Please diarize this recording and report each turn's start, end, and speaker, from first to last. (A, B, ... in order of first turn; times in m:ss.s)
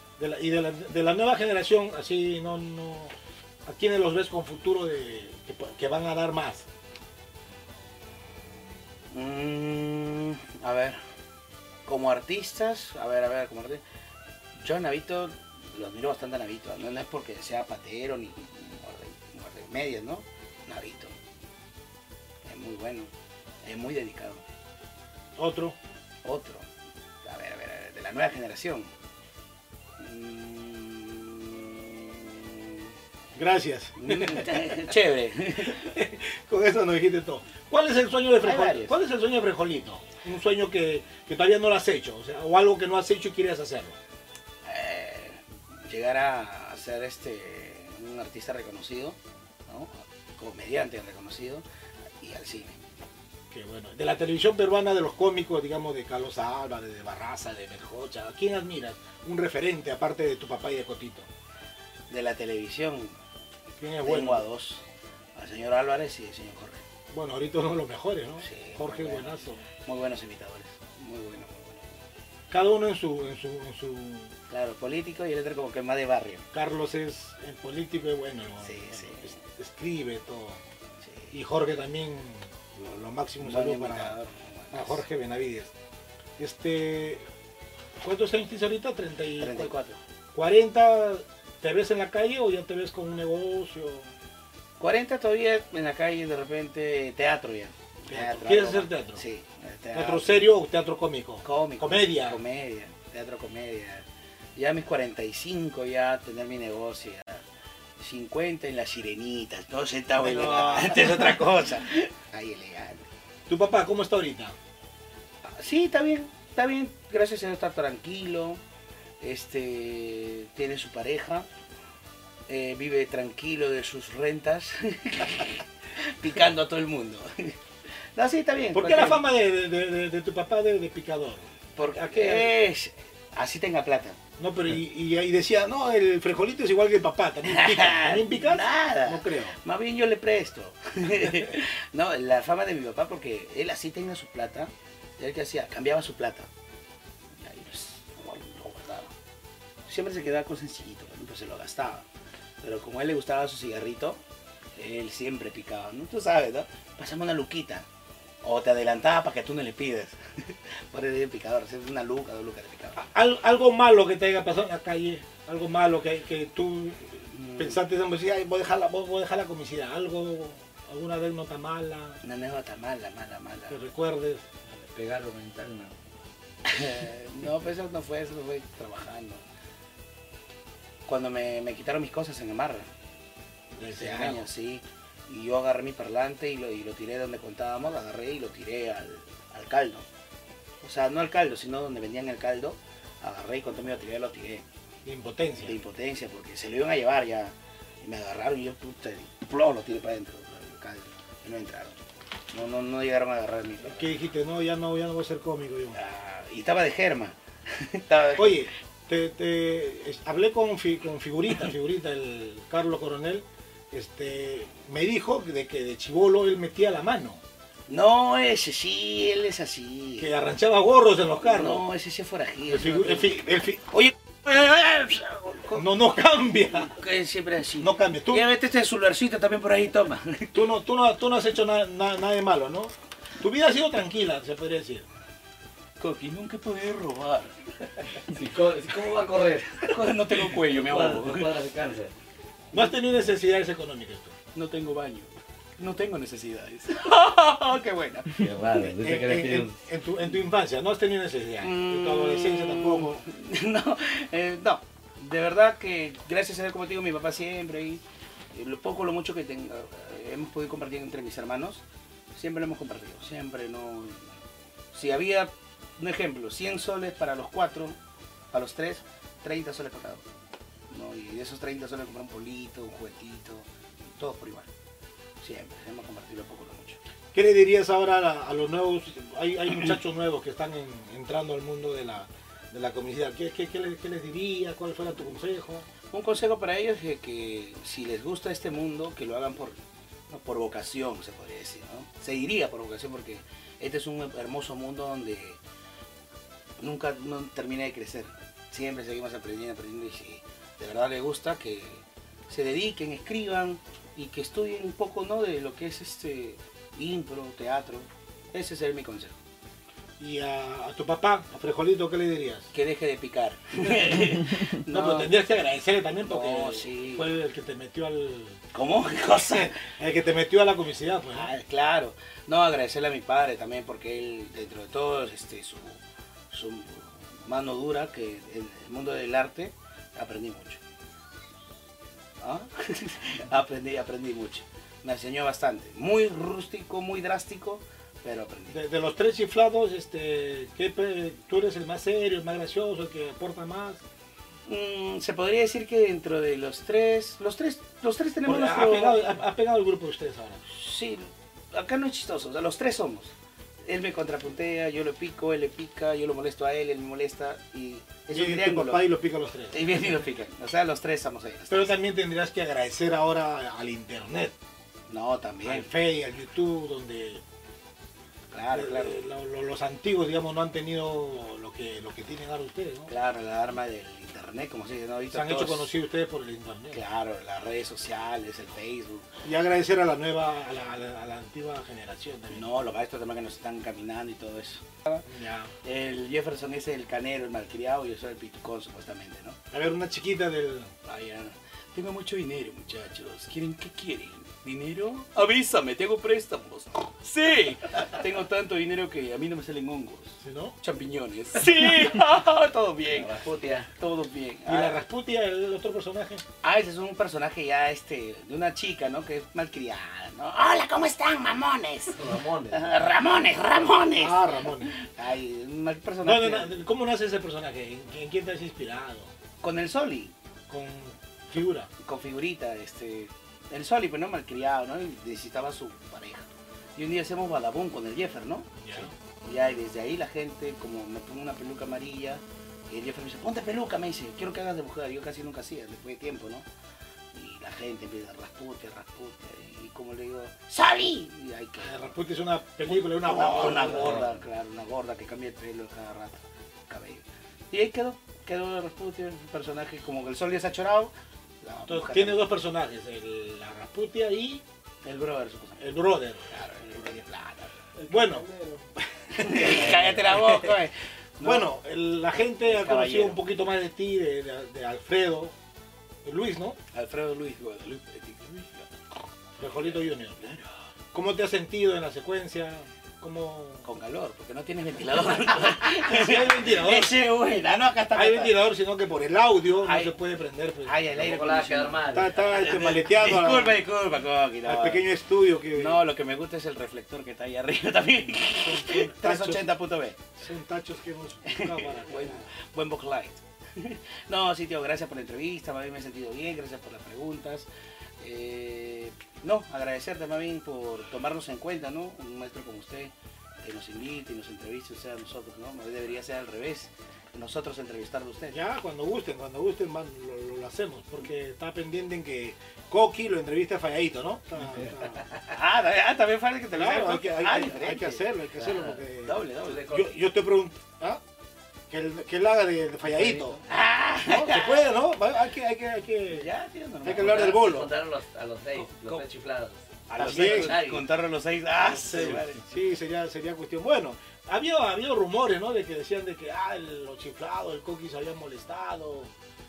0:00.2-0:03.1 A
0:03.7-0:06.7 A
0:09.1-0:11.0 B
0:11.9-0:13.8 B
0:14.6-0:21.2 B
0:22.4-0:23.1 B
0:23.6-0:24.4 B
0:25.4-0:25.8 A
0:26.2-0:26.7 B
0:27.2-0:28.9 B
0:30.0-0:32.9 B
0:33.4-0:34.9 A
0:34.0-0:35.8 B
0:35.6-0:44.0 A
0:38.4-0:39.0 B
0:44.6-0:51.6 B
0:52.2-0:52.8 B
0:53.5-1:01.3 A
1:02.1-1:03.2 B
1:03.8-1:04.5 A
1:04.0-1:04.8 B
1:05.4-1:06.8 B
1:07.1-1:09.6 A
1:08.4-1:11.9 B
1:12.5-1:14.3 A
1:14.5-1:16.4 B
1:16.5-1:20.6 A
1:18.6-1:19.4 B
1:21.0-1:21.3 B
1:21.3-1:24.2 A
1:23.4-1:25.0 B
1:24.7-1:25.7 A
1:26.4-1:27.2 A
1:28.0-1:29.7 A
1:29.4-1:30.0 B
1:30.3-1:34.1 A
1:34.8-1:40.5 B
1:38.1-1:39.2 A
1:39.9-1:42.4 A
1:41.4-1:44.0 B
1:44.6-1:47.4 B
1:48.0-1:53.1 B
1:50.2-1:51.5 A
1:53.5-1:54.6 A
1:55.4-1:58.6 B
1:59.2-2:01.5 B
2:02.5-2:07.6 B
2:08.2-2:09.2 B
2:08.7-2:12.5 A
2:11.8-2:14.2 B
2:14.4-2:19.6 A
2:17.4-2:26.5 B
2:27.4-2:29.1 B
2:29.9-2:32.1 B
2:32.6-2:34.2 B
2:34.8-2:37.9 B
2:38.4-2:43.0 B
2:43.0-2:52.2 A
2:47.3-2:47.8 B
2:52.2-2:53.8 B
2:53.7-2:54.4 A
2:54.7-2:55.9 C
2:56.6-2:59.4 B
3:01.1-3:02.9 B
3:03.8-3:04.5 A
3:03.8-3:10.0 B
3:10.8-3:14.6 B
3:15.0-3:15.8 A
3:15.6-3:22.0 B
3:22.5-3:24.1 B
3:23.8-3:26.0 A
3:26.0-3:28.7 B
3:28.4-3:37.4 A
3:37.9-3:40.3 B
3:40.2-3:41.9 A
3:41.4-3:43.3 B
3:42.7-3:43.9 A
3:43.9-3:45.8 B
3:45.7-3:47.0 A
3:46.7-3:50.6 B
3:47.8-3:48.5 A
3:50.5-3:55.1 A
3:56.0-3:57.6 B
3:58.3-4:00.0 C
3:59.9-4:01.5 B
4:00.5-4:02.1 C
4:02.7-4:04.4 A
4:04.5-4:08.4 B
4:08.4-4:09.7 C
4:08.7-4:13.2 A
4:11.6-4:18.0 B
4:18.5-4:21.8 B
4:22.4-4:24.3 B
4:24.9-4:28.0 B
4:28.5-4:30.2 B
4:30.9-4:34.7 B
4:35.4-4:37.0 B
4:37.3-4:45.9 A
4:46.1-4:49.8 B
4:50.3-4:55.6 B
4:56.8-5:09.4 B
5:10.2-5:12.7 A
5:12.7-5:15.3 B
5:14.0-5:18.6 A
5:16.2-5:17.3 B
5:18.7-5:19.8 B
5:19.5-5:21.5 A
5:21.3-5:26.0 B
5:26.5-5:30.8 B
5:32.4-5:38.8 B
5:38.7-5:44.0 A
5:44.7-5:49.2 B
5:48.4-5:50.6 A
5:50.7-5:53.3 B
5:53.8-5:59.1 B
5:58.3-5:59.9 A
5:59.7-6:01.9 B
6:01.7-6:04.6 A
6:05.1-6:05.9 B
6:05.6-6:07.4 A
6:08.5-6:09.2 B
6:08.7-6:13.1 A
6:13.1-6:15.9 B
6:15.3-6:17.0 A
6:16.9-6:19.4 B
6:19.4-6:22.7 A
6:22.5-6:25.2 B
6:25.3-6:25.7 A
6:25.8-6:29.6 B
6:29.7-6:30.9 A
6:31.0-6:44.9 B
6:40.4-6:40.8 A
6:43.1-6:43.9 C
6:44.7-6:46.4 A
6:46.6-6:56.8 B
6:52.2-6:53.0 C
6:54.1-6:55.0 A
6:56.2-6:59.3 A
6:59.6-7:00.3 B
7:00.7-7:01.9 A
7:02.0-7:16.7 B
7:08.8-7:09.1 A
7:17.3-7:22.1 B
7:21.8-7:24.3 A
7:22.8-7:32.5 B
7:31.9-7:34.6 A
7:35.0-7:37.7 B
7:35.8-7:37.2 A
7:38.0-7:38.9 C
7:38.1-7:38.5 A
7:39.3-7:41.7 B
7:39.4-7:40.6 A
7:41.4-7:45.5 A
7:42.4-7:43.4 B
7:46.2-7:46.8 A
7:46.9-7:48.9 B
7:49.6-7:50.6 A
7:51.1-7:53.9 A
7:53.8-7:58.6 B
7:56.0-7:57.1 A
7:58.1-8:01.4 A
7:59.8-8:00.1 B
8:00.8-8:05.0 B
8:01.1-8:02.4 C
8:02.1-8:03.9 A
8:04.6-8:06.0 A
8:05.7-8:10.3 B
8:08.4-8:09.7 A
8:10.4-8:12.4 A
8:11.5-8:17.7 B
8:18.2-8:28.6 B
8:28.5-8:35.2 A
8:35.3-8:38.2 B
8:36.7-8:41.2 A
8:38.6-8:39.0 C
8:39.2-8:39.9 B
8:39.6-8:40.2 C
8:41.9-8:43.6 A
8:43.1-8:43.5 C
8:43.6-8:44.9 B
8:44.3-8:46.5 A
8:46.3-8:47.6 B
8:47.0-8:47.9 A
8:47.2-8:51.0 C
8:48.8-8:49.3 B
8:50.1-8:50.8 A
8:50.2-8:52.6 B
8:51.8-8:59.3 A